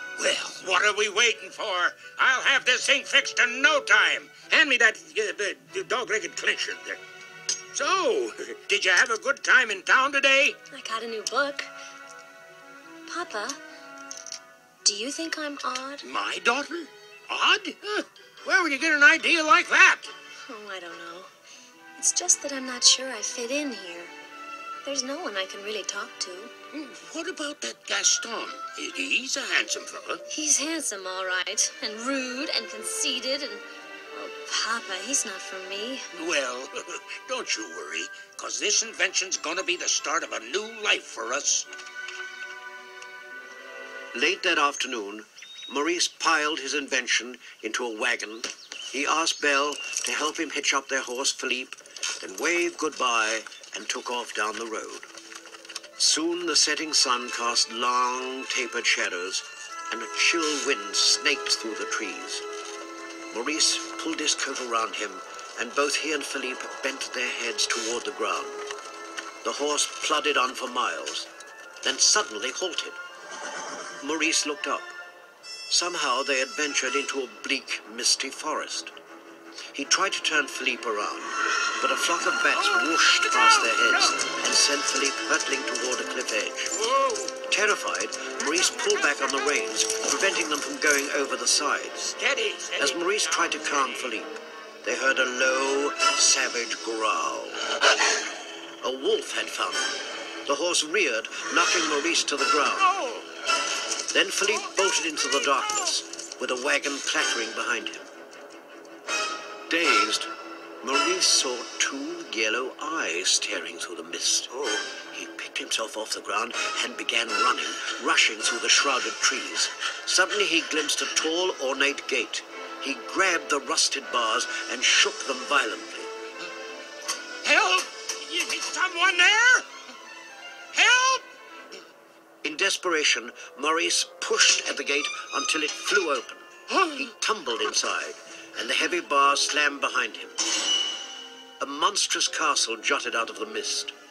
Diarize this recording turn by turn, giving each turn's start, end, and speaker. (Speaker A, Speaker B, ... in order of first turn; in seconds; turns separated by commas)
Speaker A: 0.2-7.0, Speaker A: 7.7-10.6, Speaker B: 10.7-11.7, Speaker B: 13.1-13.6, Speaker B: 14.8-16.1, Speaker A: 16.0-20.1, Speaker B: 20.5-21.3, Speaker B: 22.0-24.1, Speaker B: 24.9-26.5, Speaker A: 26.7-30.2, Speaker B: 30.3-36.1, Speaker A: 36.1-41.7, Speaker C: 44.1-55.1, Speaker C: 56.0-62.4, Speaker C: 63.3-68.6, Speaker C: 69.4-71.3, Speaker C: 71.8-73.0, Speaker C: 74.0-74.9, Speaker C: 75.7-79.0, Speaker C: 79.7-86.7, Speaker A: 82.5-84.2, Speaker A: 86.7-87.4, Speaker C: 87.5-92.1, Speaker A: 92.0-94.2, Speaker C: 92.8-97.6, Speaker C: 98.8-102.9, Speaker A: 102.8-103.3, Speaker C: 104.1-108.1, Speaker A: 105.5-105.8, Speaker C: 109.7-110.3, Speaker C: 110.8-114.5, Speaker C: 115.1-126.1, Speaker A: 127.4-129.7, Speaker A: 130.7-131.3, Speaker C: 132.4-140.4, Speaker A: 136.7-137.1, Speaker C: 141.6-143.9